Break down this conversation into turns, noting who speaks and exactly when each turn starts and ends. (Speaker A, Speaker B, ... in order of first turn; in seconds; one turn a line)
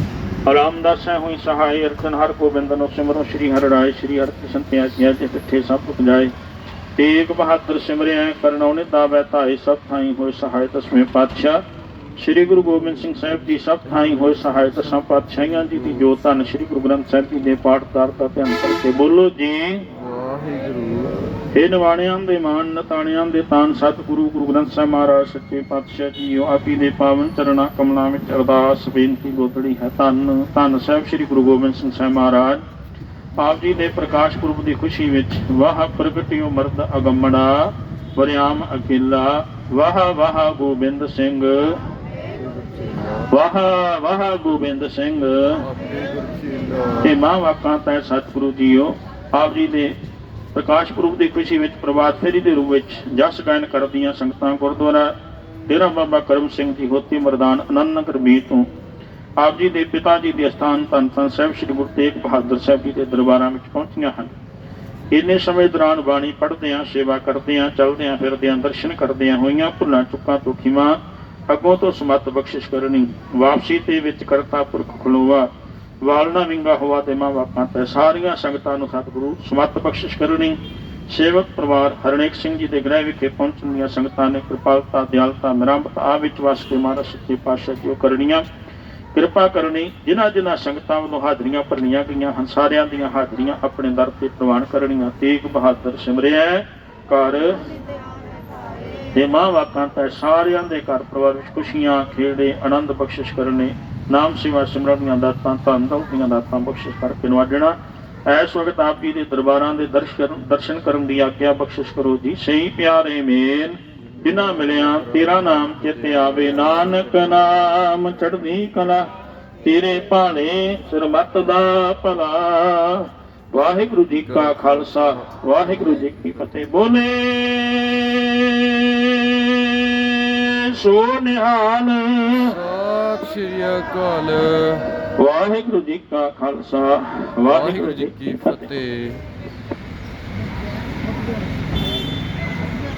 Speaker A: 0.5-6.3
Speaker A: 7.0-11.6
Speaker A: 12.2-19.9
Speaker B: 19.9-21.4
Speaker A: 21.5-32.6
Speaker A: 33.4-41.8
Speaker A: 43.3-45.7
Speaker B: 45.7-47.0
Speaker A: 47.0-50.0
Speaker A: 50.5-55.1
Speaker A: 55.7-58.7
Speaker A: 59.4-64.3
Speaker A: 65.1-75.5
Speaker A: 76.0-88.5
Speaker A: 89.1-97.6
Speaker A: 99.2-119.1
Speaker A: 119.6-132.6
Speaker B: 132.6-135.0
Speaker A: 135.2-138.7
Speaker B: 137.5-139.2